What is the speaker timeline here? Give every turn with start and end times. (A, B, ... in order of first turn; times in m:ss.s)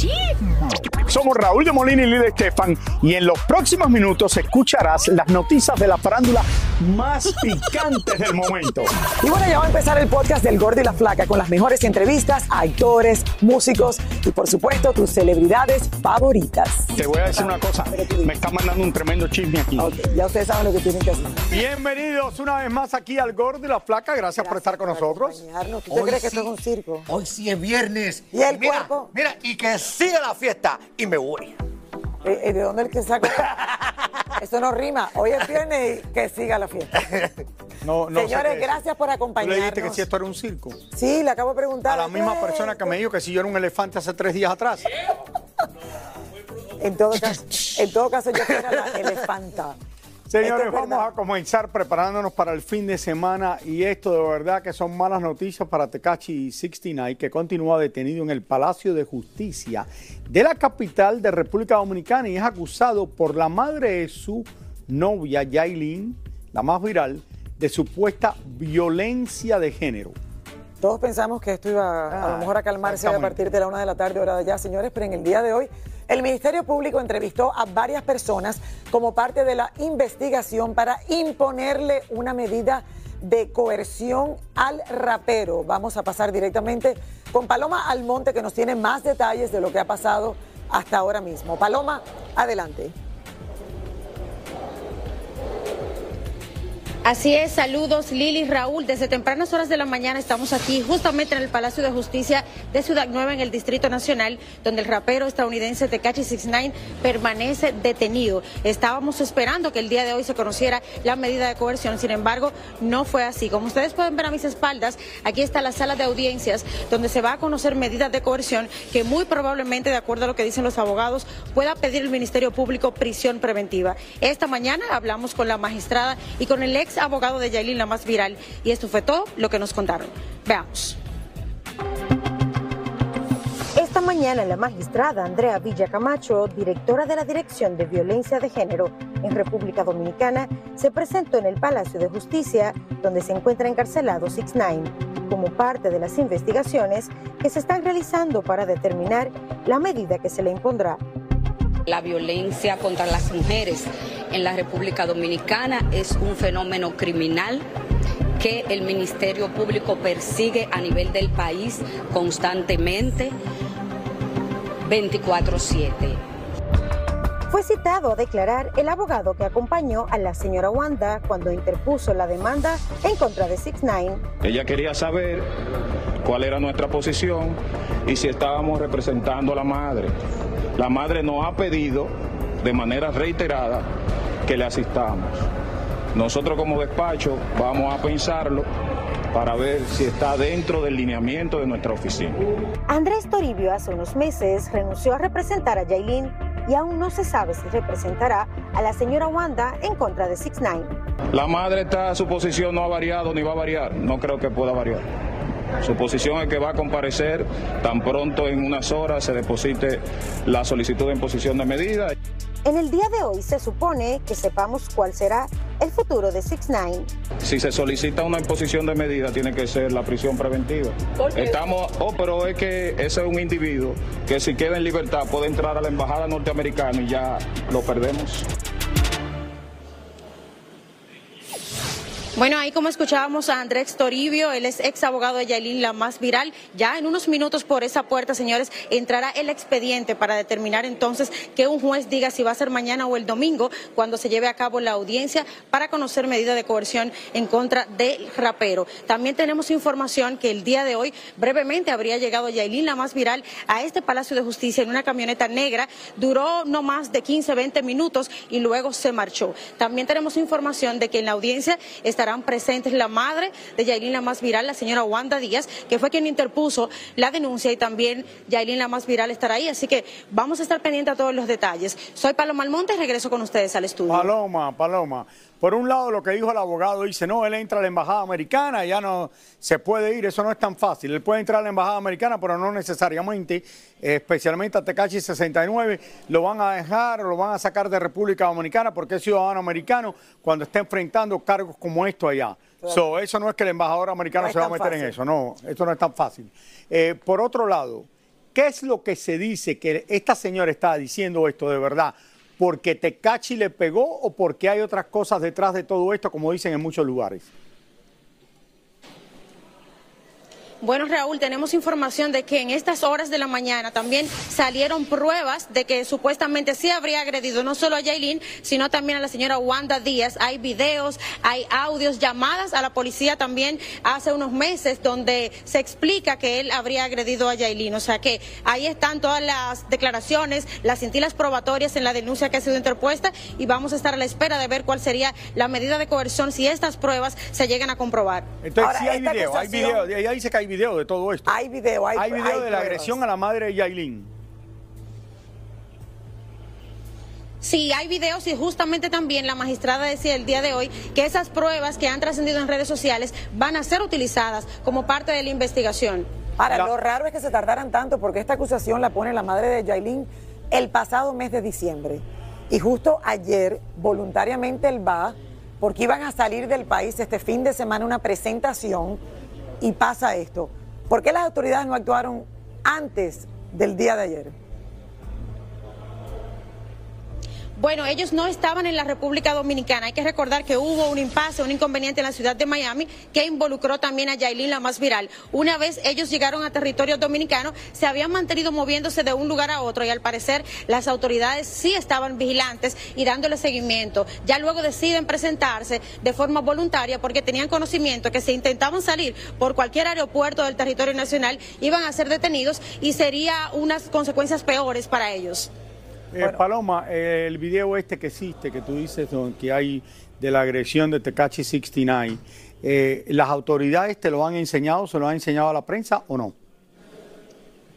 0:01.1-0:08.9 A
0:09.2-0:18.4 B
0:17.0-0:19.9 A
0:19.8-0:21.4 B
0:21.5-0:25.4 A
0:24.4-0:27.1 B
0:25.9-0:26.5 C
0:27.1-0:31.5 C
0:28.3-0:29.1 B
0:32.2-0:33.7 B
0:34.4-0:36.9 B
0:37.8-0:38.8 A
0:38.1-0:40.0 B
0:39.4-0:40.8 A
0:40.9-0:43.0 B
0:41.9-0:44.8 A
0:46.8-0:49.8 B
0:50.3-1:10.1 A
0:50.4-0:51.1 B
1:10.8-1:32.9 B
1:12.1-1:13.4 A
1:37.0-2:11.0 D
2:13.8-2:31.0 E
2:31.8-2:37.6 F
2:38.4-2:43.3 F
2:44.8-2:46.2 F
2:47.5-2:54.2 E
2:54.4-2:55.5 G
2:56.2-3:00.1 G
3:00.8-3:03.8 G
3:04.4-3:05.4 G
3:06.1-3:08.7 G
3:09.3-3:12.4 G
3:12.9-3:20.9 E
3:21.3-3:25.0 G
3:25.8-3:32.1 G
3:32.6-3:37.1 E
3:37.4-3:48.5 G
3:52.4-4:34.3 D
4:34.1-5:07.5 A
4:52.8-4:53.1 B
4:54.3-4:55.2 B
5:10.8-5:38.5 D
5:38.6-5:41.5 A
5:38.8-5:40.1 B
5:41.5-5:43.2 B
5:42.1-5:44.3 A
5:47.6-5:56.3 D
5:56.6-6:09.2 B
5:56.7-5:56.9 A
6:09.8-6:14.5 B
6:17.8-6:45.7 D
6:46.3-6:56.5 A